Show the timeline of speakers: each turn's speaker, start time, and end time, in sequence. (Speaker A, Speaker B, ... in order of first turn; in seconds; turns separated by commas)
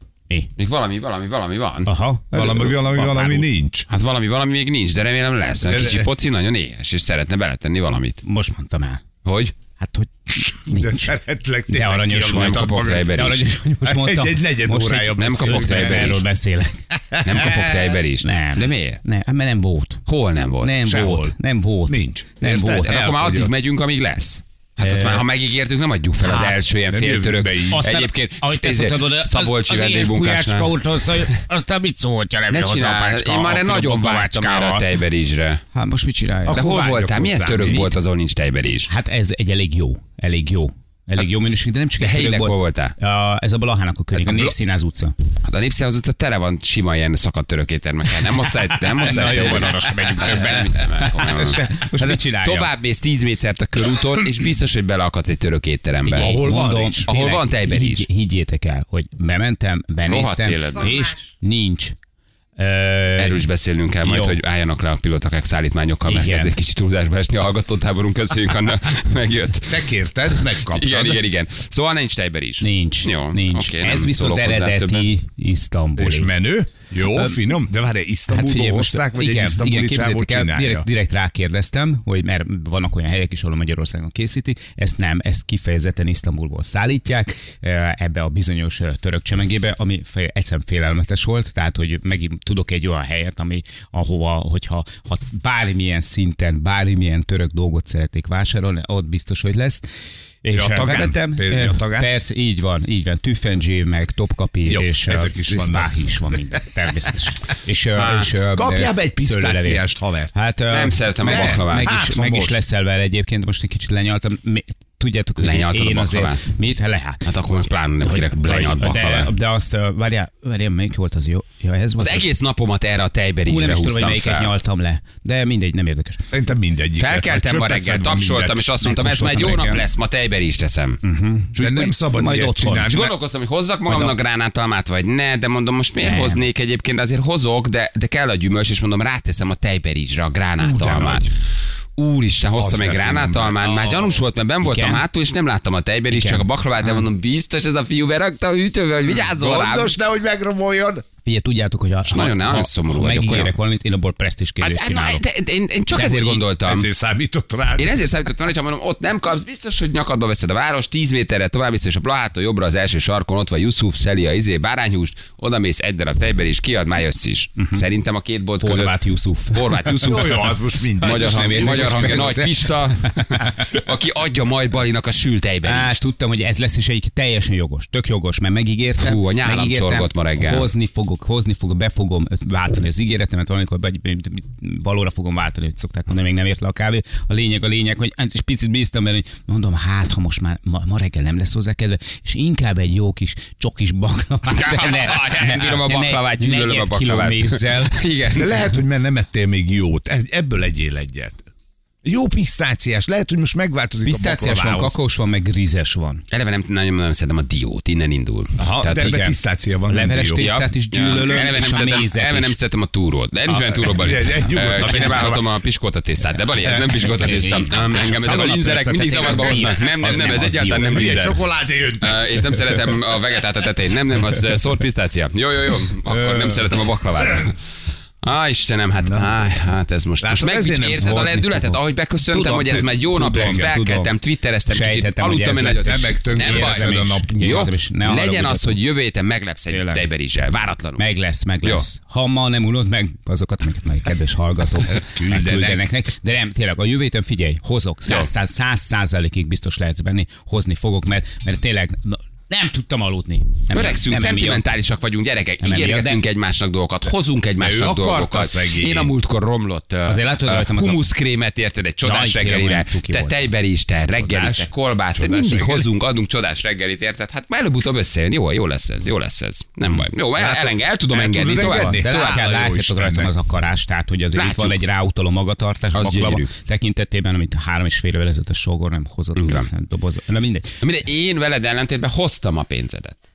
Speaker A: 0.6-1.9, Speaker B: 1.9-3.5, Speaker C: 2.3-3.9, Speaker A: 3.9-8.2, Speaker C: 5.7-6.1, Speaker B: 8.2-9.0, Speaker A: 9.2-9.5, Speaker B: 9.8-16.9, Speaker C: 10.8-13.3, Speaker A: 12.1-13.5, Speaker C: 13.8-16.2, Speaker A: 15.0-16.2, Speaker C: 16.9-17.9, Speaker A: 17.2-19.0, Speaker B: 18.2-20.0, Speaker A: 20.1-20.9, Speaker B: 20.6-23.0, Speaker C: 20.8-23.5, Speaker A: 22.8-30.7, Speaker B: 24.8-25.2, Speaker B: 26.3-26.6, Speaker C: 26.9-27.8, Speaker B: 27.7-34.9, Speaker A: 32.5-35.6, Speaker B: 35.8-36.6, Speaker C: 36.5-37.9, Speaker A: 36.5-38.9, Speaker B: 38.9-45.1, Speaker A: 42.0-43.0, Speaker A: 44.2-44.5, Speaker A: 45.5-56.4, Speaker B: 48.9-52.7, Speaker C: 56.1-57.1, Speaker B: 56.2-62.0, Speaker A: 57.1-58.1, Speaker A: 60.1-61.1, Speaker B: 62.6-63.5, Speaker A: 63.2-75.1, Speaker B: 64.0-64.4, Speaker B: 66.1-66.5, Speaker C: 69.7-71.2, Speaker B: 72.6-76.3, Speaker C: 76.0-80.9, Speaker B: 77.0-77.4, Speaker B: 78.3-99.8, Speaker B: 100.4-109.8, Speaker C: 100.5-102.1, Speaker C: 104.7-106.0, Speaker A: 108.0-108.3, Speaker C: 108.5-110.3, Speaker B: 110.3-117.2, Speaker A: 110.7-111.9, Speaker C: 111.2-112.6, Speaker A: 115.4-116.4, Speaker A: 117.2-119.3, Speaker B: 118.2-122.2, Speaker A: 122.0-124.5, Speaker B: 123.5-126.2, Speaker C: 126.3-128.6, Speaker A: 127.0-131.0, Speaker B: 128.8-129.9, Speaker B: 131.0-133.0, Speaker C: 131.6-133.1, Speaker A: 132.9-141.3, Speaker B: 133.9-134.2, Speaker B: 136.0-136.4, Speaker C: 140.6-141.3, Speaker A: 142.0-149.9, Speaker C: 142.6-144.2, Speaker B: 144.6-145.0, Speaker B: 146.1-147.1, Speaker C: 149.1-151.1, Speaker B: 151.2-155.2, Speaker A: 152.1-153.5, Speaker A: 154.6-156.9, Speaker B: 155.9-156.4, Speaker C: 156.6-158.0, Speaker A: 157.8-169.0, Speaker B: 167.6-167.8, Speaker B: 168.6-170.4, Speaker A: 169.5-176.0, Speaker C: 170.0-172.5, Speaker B: 171.0-173.4, Speaker B: 175.6-197.9, Speaker A: 179.0-180.7, Speaker A: 194.5-198.6, Speaker C: 198.3-201.4, Speaker C: 202.0-205.0, Speaker B: 204.1-206.2, Speaker A: 206.3-209.1, Speaker C: 208.6-210.7, Speaker B: 208.8-209.4, Speaker B: 209.9-212.6, Speaker A: 210.4-221.4, Speaker C: 213.5-215.5, Speaker C: 216.6-216.9, Speaker B: 217.1-221.3, Speaker C: 220.3-222.6, Speaker A: 222.0-227.7, Speaker A: 228.2-241.1, Speaker C: 229.0-229.3, Speaker C: 230.2-231.4, Speaker B: 230.9-234.1, Speaker C: 233.3-233.7, Speaker B: 234.7-238.8, Speaker C: 235.8-237.7, Speaker B: 239.7-240.0, Speaker B: 241.0-254.6, Speaker C: 244.8-245.9, Speaker A: 253.7-272.4, Speaker B: 255.6-256.2, Speaker C: 257.6-259.1, Speaker B: 260.1-261.0, Speaker B: 262.0-263.4, Speaker C: 264.1-265.9, Speaker C: 270.4-273.3, Speaker B: 271.4-280.8, Speaker A: 274.4-274.8, Speaker A: 276.0-276.5, Speaker A: 279.4-279.7, Speaker A: 280.8-283.2